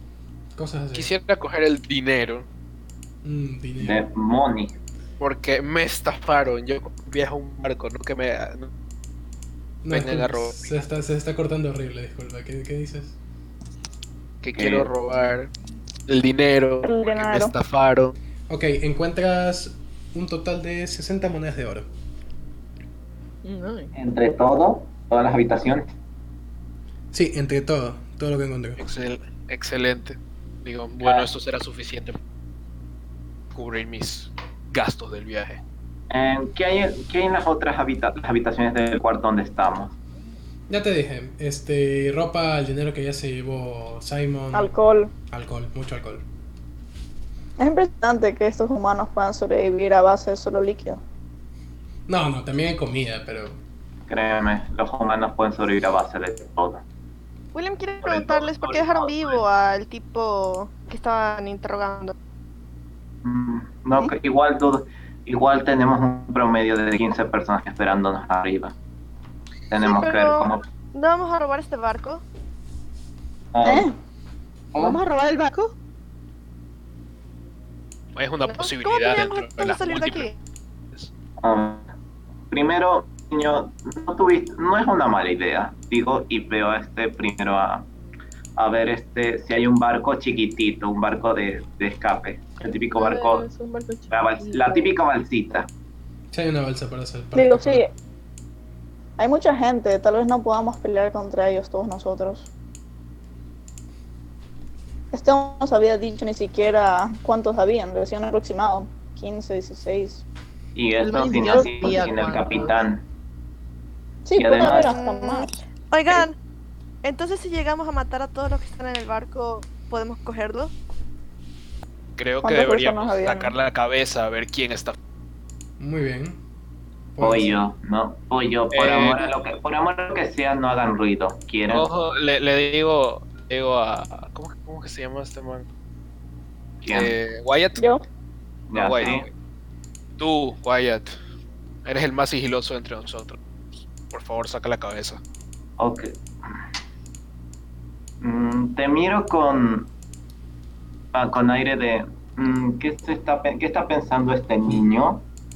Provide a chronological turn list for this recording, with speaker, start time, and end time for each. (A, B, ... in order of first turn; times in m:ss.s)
0:00.6-0:01.1 A
0:00.9-0:02.5 B
0:03.2-0:04.0 A
0:03.8-0:04.8 C
0:05.2-0:08.7 B
0:09.8-0:13.2 A
0:09.9-0:10.7 B
0:14.4-0:15.5 B
0:14.6-0:14.9 C
0:16.1-0:18.2 B
0:16.8-0:17.5 D
0:18.5-0:21.9 A
0:23.4-0:23.9 E
0:23.9-0:25.9 C
0:27.1-0:28.8 A
0:28.8-0:32.2 B
0:33.5-0:35.6 B
0:36.1-0:40.0 C
0:40.7-0:44.7 A
0:44.5-0:45.1 D
0:45.3-0:46.2 A
0:47.6-0:51.0 D
0:52.1-0:53.6 A
0:54.1-0:56.8 C
0:57.5-1:02.1 F
0:58.0-0:59.4 C
1:03.2-1:08.7 C
1:09.7-1:10.6 C
1:09.8-1:12.2 F
1:13.5-1:13.9 C
1:13.6-1:13.9 D
1:14.8-1:15.7 E
1:18.2-1:20.3 B
1:18.4-1:20.3 F
1:21.4-1:21.9 C
1:22.5-1:27.9 C
1:28.6-1:33.4 C
1:32.9-1:34.9 E
1:34.1-1:35.7 C
1:36.3-1:37.8 A
1:37.3-1:37.9 D
1:39.2-1:42.5 D
1:45.1-1:50.2 D
1:50.8-1:53.0 C
1:51.0-1:52.8 E
1:54.2-1:55.6 D
1:54.4-1:54.9 C
1:54.6-1:56.4 F
1:57.0-2:00.7 F
2:02.2-2:05.0 B
2:02.4-2:03.5 D
2:05.8-2:06.4 A
2:07.2-2:07.5 A
2:07.2-2:11.9 C
2:08.7-2:09.3 B
2:11.7-2:15.7 B
2:16.8-2:17.1 C
2:16.9-2:17.8 B
2:17.8-2:18.0 D
2:18.7-2:19.2 C
2:18.7-2:19.3 B
2:20.2-2:21.1 B
2:21.8-2:25.2 B
2:25.8-2:26.1 C
2:28.2-2:29.9 C
2:31.1-2:35.2 C